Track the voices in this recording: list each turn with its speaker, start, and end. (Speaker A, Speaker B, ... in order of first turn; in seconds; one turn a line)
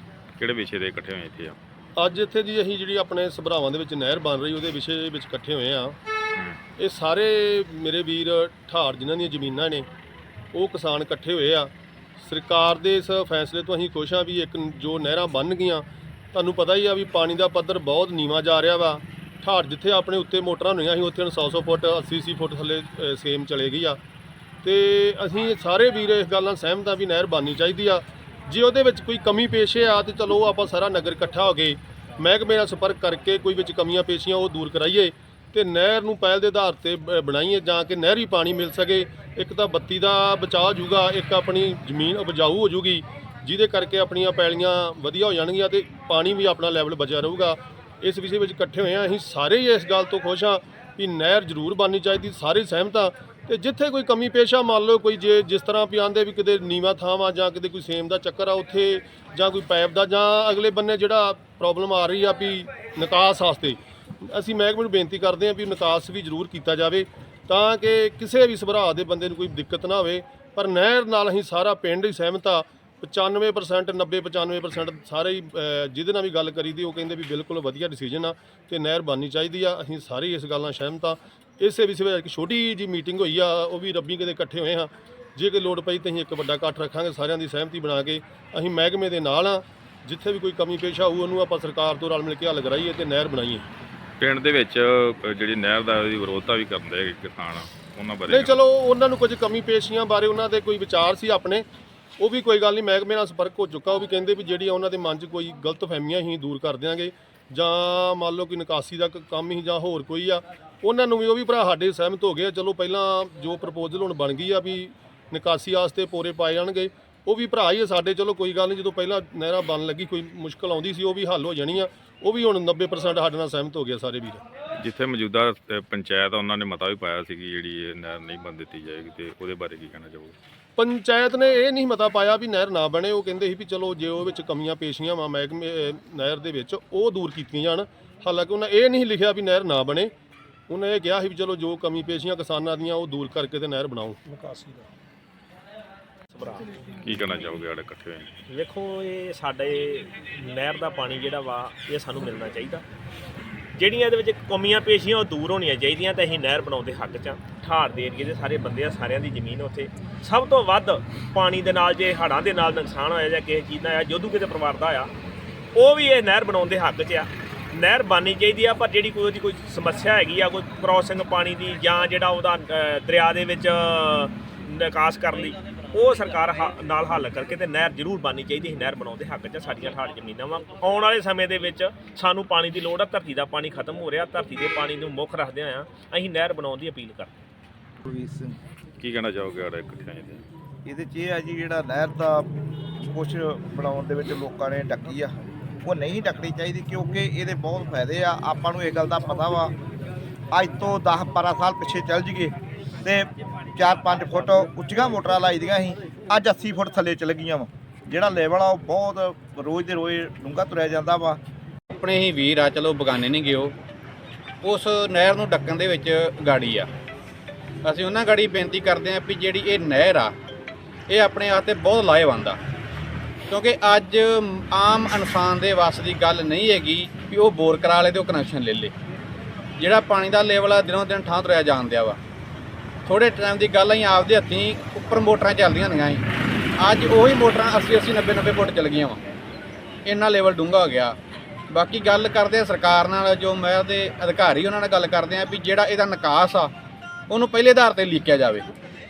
Speaker A: 0.4-1.6
Speaker B: 2.0-6.0
Speaker B: 6.8-9.9
Speaker B: 10.5-24.0
Speaker B: 24.6-93.7
Speaker A: 94.2-98.6
Speaker B: 98.3-101.7
Speaker B: 102.2-124.4
Speaker A: 124.8-130.4
Speaker B: 130.8-140.1
Speaker B: 140.7-144.4
Speaker C: 146.3-146.7
Speaker A: 147.0-148.3
Speaker C: 148.5-152.8
Speaker C: 153.8-165.1
Speaker C: 165.8-187.2
Speaker D: 188.0-188.6
Speaker A: 189.0-190.4
Speaker D: 190.8-192.5
Speaker D: 193.0-199.7
Speaker D: 200.5-211.4
Speaker E: 212.0-213.6
Speaker E: 214.7-216.8
Speaker E: 217.9-220.3
Speaker E: 221.1-222.6
Speaker E: 223.5-228.9
Speaker E: 229.8-232.2
Speaker E: 233.1-236.2
Speaker E: 236.8-239.2
Speaker E: 240.1-241.1
Speaker E: 241.7-246.7
Speaker E: 247.3-248.6